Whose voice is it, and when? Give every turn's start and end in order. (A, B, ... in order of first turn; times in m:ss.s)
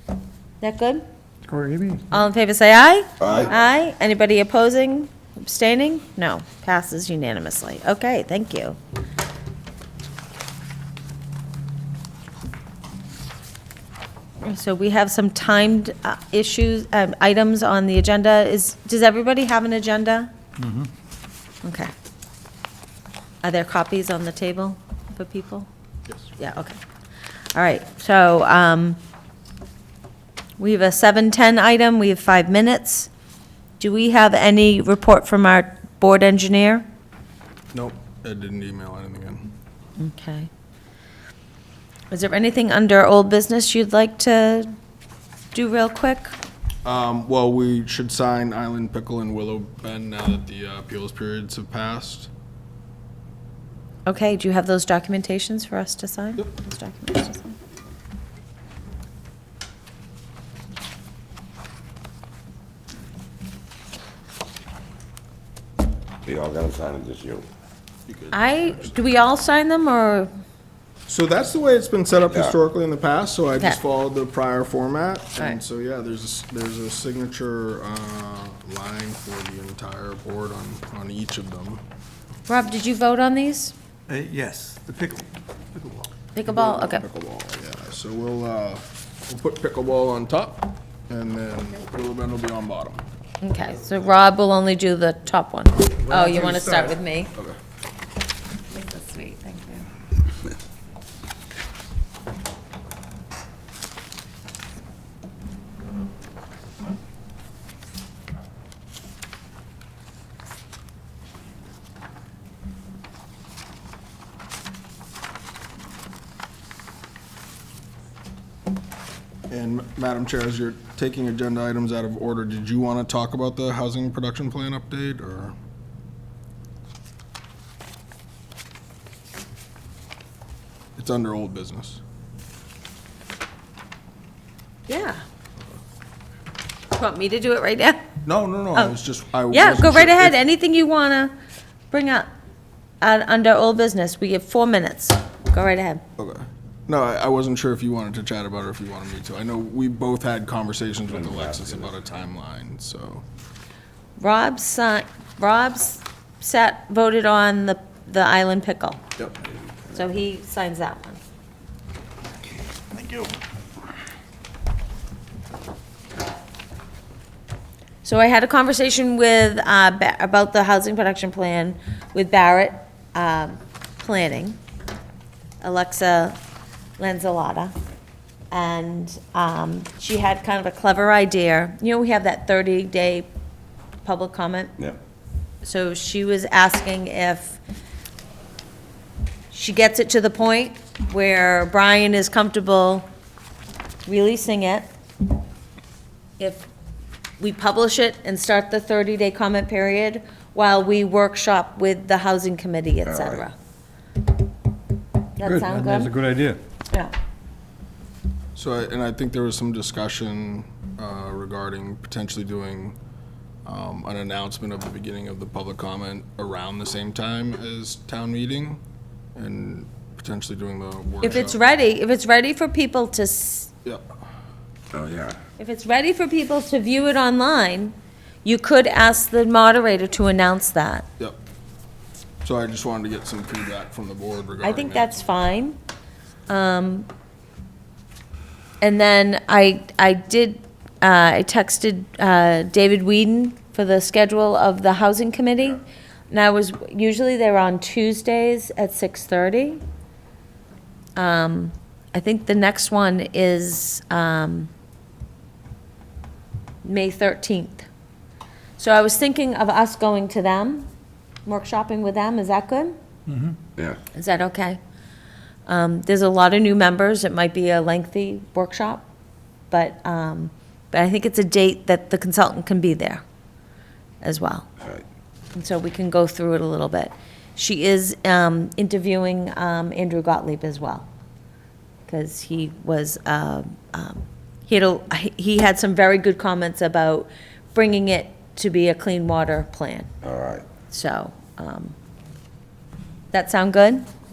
0:00.6-0:01.0 A
0:01.5-0:02.0 B
0:02.1-0:08.8 A
0:03.2-0:03.5 C
0:14.4-0:20.3 A
0:20.6-0:20.9 B
0:21.6-0:21.9 A
0:23.4-0:25.7 A
0:26.4-0:26.8 A
0:27.5-0:29.0 A
0:30.6-0:33.1 A
0:33.8-0:36.8 A
0:37.7-0:39.5 D
0:40.0-0:40.5 A
0:42.1-0:44.7 A
0:45.5-0:46.3 A
0:46.8-0:52.3 D
0:54.0-0:57.6 A
1:06.2-1:07.4 C
1:08.1-1:08.9 D
1:08.3-1:10.3 A
1:11.1-1:21.8 D
1:12.3-1:12.6 C
1:22.5-1:23.7 A
1:24.1-1:26.1 B
1:26.3-1:27.0 A
1:26.4-1:33.0 D
1:33.4-1:37.3 A
1:36.0-1:36.9 B
1:38.7-1:39.9 A
1:59.5-2:05.5 D
2:11.0-2:12.0 D
2:14.9-2:15.2 A
2:16.9-2:18.0 A
2:18.2-2:20.4 D
2:19.5-2:21.3 A
2:21.9-2:22.3 A
2:23.0-2:26.0 A
2:26.2-2:33.2 D
2:31.1-2:32.0 C
2:34.2-2:39.0 A
2:39.9-2:41.2 A
2:42.9-2:43.3 D
2:48.0-2:54.6 A
2:55.6-2:56.4 A
2:57.0-2:57.7 A
2:58.5-3:03.3 A
3:04.0-3:04.8 A
3:05.6-3:07.6 A
3:09.5-3:13.1 A
3:14.1-3:14.9 A
3:16.4-3:16.6 A
3:17.4-3:23.5 A
3:23.1-3:23.4 C
3:25.4-3:26.1 A
3:25.4-3:26.6 B
3:28.5-3:33.0 D
3:33.6-3:38.8 D
3:39.3-3:41.6 D
3:41.2-3:43.7 A
3:44.9-3:45.4 C
3:45.6-3:51.1 A
3:52.4-3:55.1 D
3:54.6-3:55.8 A
3:56.5-3:57.1 A
3:58.8-4:09.8 A
4:11.2-4:14.7 A
4:16.8-4:17.9 A
4:18.8-4:20.9 A
4:21.5-4:23.0 A
4:23.3-4:23.6 B
4:24.1-4:24.8 A
4:25.7-4:29.0 A
4:29.7-4:33.2 A
4:34.2-4:34.7 A
4:35.6-4:41.1 A
4:42.1-4:50.1 A
4:50.2-4:50.7 C
4:50.9-4:51.9 A
4:53.3-4:54.1 A